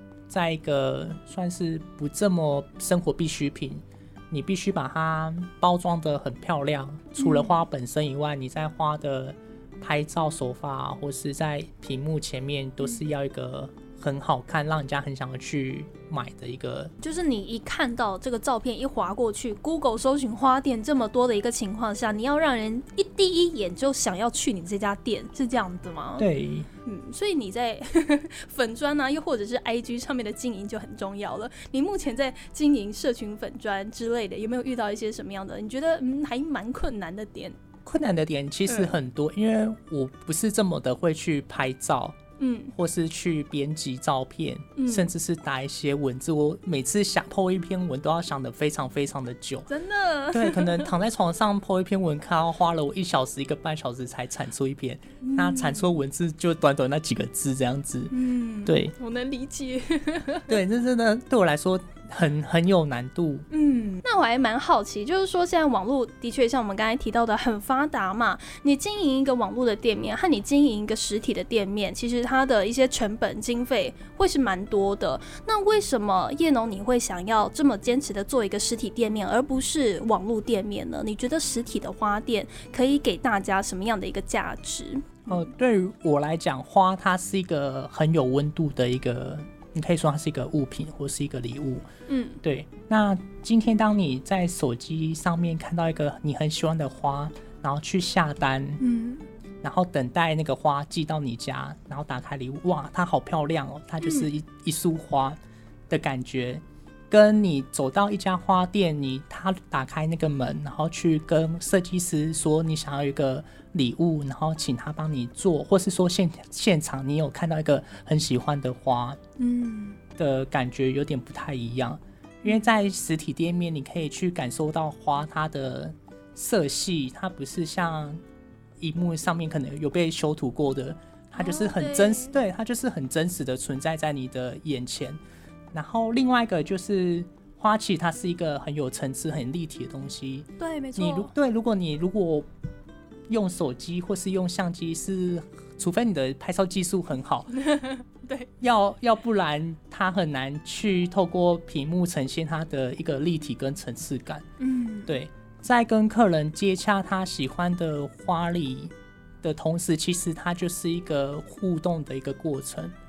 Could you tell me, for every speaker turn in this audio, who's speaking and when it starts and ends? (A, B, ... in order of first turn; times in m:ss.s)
0:00.3-0:16.9 A
0:07.2-0:07.6 B
0:17.0-0:26.2 B
0:26.2-0:26.7 A
0:26.8-0:37.6 B
0:37.8-0:42.2 A
0:38.7-0:38.9 B
0:42.4-0:42.7 B
0:42.7-0:49.7 A
0:44.8-0:45.1 B
0:49.7-0:50.9 B
0:50.3-0:58.1 A
0:55.2-0:56.0 B
0:58.1-1:00.6 B
0:58.6-0:58.9 A
1:00.5-1:03.4 A
1:03.5-1:25.5 B
1:25.3-1:31.8 A
1:32.1-1:32.4 B
1:32.4-1:38.8 A
1:38.8-1:39.2 B
1:39.6-1:45.4 A
1:44.0-1:44.3 B
1:45.9-1:59.2 A
1:59.4-2:00.0 B
2:00.1-2:08.2 A
2:08.8-2:15.2 A
2:11.4-2:12.4 B
2:15.7-2:22.5 A
2:20.6-2:21.3 B
2:23.3-2:27.6 A
2:27.5-2:28.5 B
2:28.6-2:34.4 A
2:34.6-2:35.2 B
2:35.1-2:42.9 A